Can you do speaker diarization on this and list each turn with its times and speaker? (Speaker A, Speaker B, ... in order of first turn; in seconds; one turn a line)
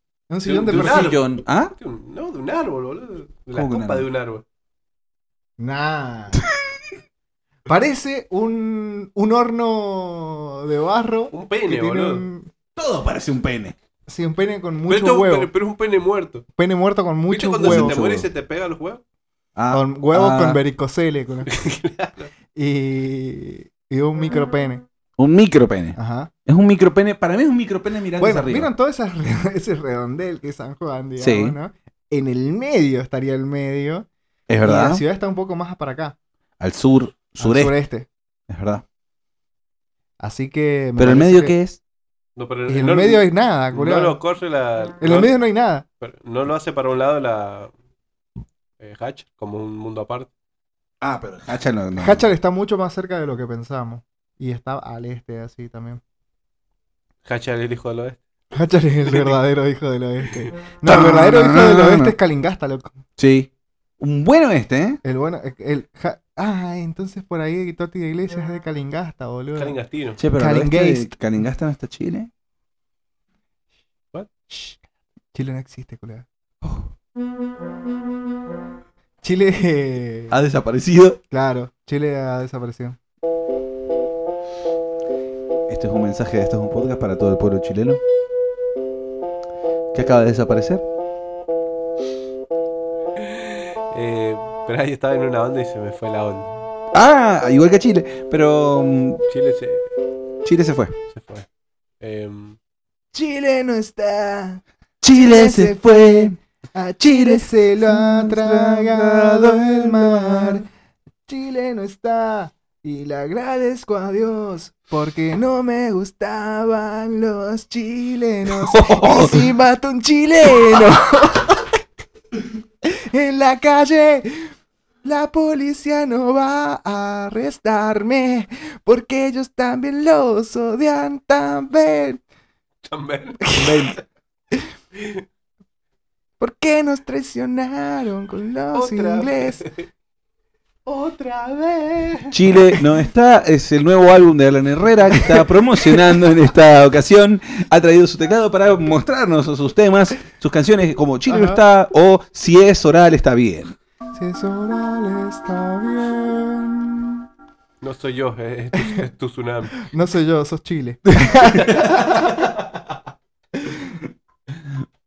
Speaker A: 0.3-1.2
Speaker B: 0.4-4.4
Speaker C: 0.7-1.7
Speaker C: 3.5-4.0
Speaker A: 5.6-6.4
Speaker A: 7.7-12.5
Speaker B: 11.3-12.2
Speaker C: 12.8-13.8
Speaker A: 14.1-15.5
Speaker B: 14.9-16.4
Speaker A: 16.6-18.0
Speaker B: 17.3-19.0
Speaker C: 17.6-18.3
Speaker C: 19.6-20.6
Speaker A: 19.7-21.5
Speaker B: 21.5-22.3
Speaker A: 22.5-24.9
Speaker C: 25.2-28.7
Speaker A: 25.9-26.3
Speaker A: 28.2-34.1
Speaker C: 31.2-31.6
Speaker C: 34.5-35.0
Speaker A: 34.6-36.1
Speaker C: 36.6-37.7
Speaker A: 37.4-38.1
Speaker C: 38.5-38.8
Speaker A: 40.2-41.5
Speaker C: 41.0-41.8
Speaker B: 42.4-45.3
Speaker A: 42.7-44.2
Speaker A: 45.0-45.8
Speaker B: 46.0-47.7
Speaker B: 48.8-50.3
Speaker C: 51.0-52.3
Speaker A: 52.0-56.0
Speaker B: 57.2-58.2
Speaker A: 58.5-63.0
Speaker B: 59.0-59.4
Speaker C: 60.8-62.1
Speaker C: 63.2-63.5
Speaker C: 64.0-65.0
Speaker A: 65.0-69.8
Speaker B: 69.5-70.2
Speaker C: 70.2-72.3
Speaker A: 70.4-71.1
Speaker A: 74.5-74.8
Speaker A: 75.3-76.2
Speaker C: 76.6-76.9
Speaker A: 79.2-80.3
Speaker C: 80.3-81.2
Speaker A: 81.3-83.0
Speaker C: 85.7-88.0
Speaker C: 89.9-90.8
Speaker B: 93.2-96.5
Speaker C: 96.9-99.2
Speaker B: 99.3-99.9
Speaker C: 100.4-100.9
Speaker B: 101.1-101.5
Speaker B: 102.0-102.6
Speaker A: 103.1-110.7
Speaker C: 105.0-106.3
Speaker C: 107.0-110.6
Speaker A: 111.3-121.8
Speaker C: 118.5-119.4
Speaker A: 122.8-124.5
Speaker A: 125.0-132.2
Speaker B: 132.9-133.5
Speaker A: 133.4-133.9
Speaker C: 133.5-133.9
Speaker B: 135.0-135.2
Speaker A: 136.4-139.6
Speaker B: 138.7-139.9
Speaker B: 140.8-142.3
Speaker C: 142.3-153.8
Speaker A: 145.2-146.0
Speaker A: 151.3-151.6
Speaker A: 154.1-157.2
Speaker B: 157.8-159.8
Speaker A: 159.8-162.4
Speaker C: 161.2-162.4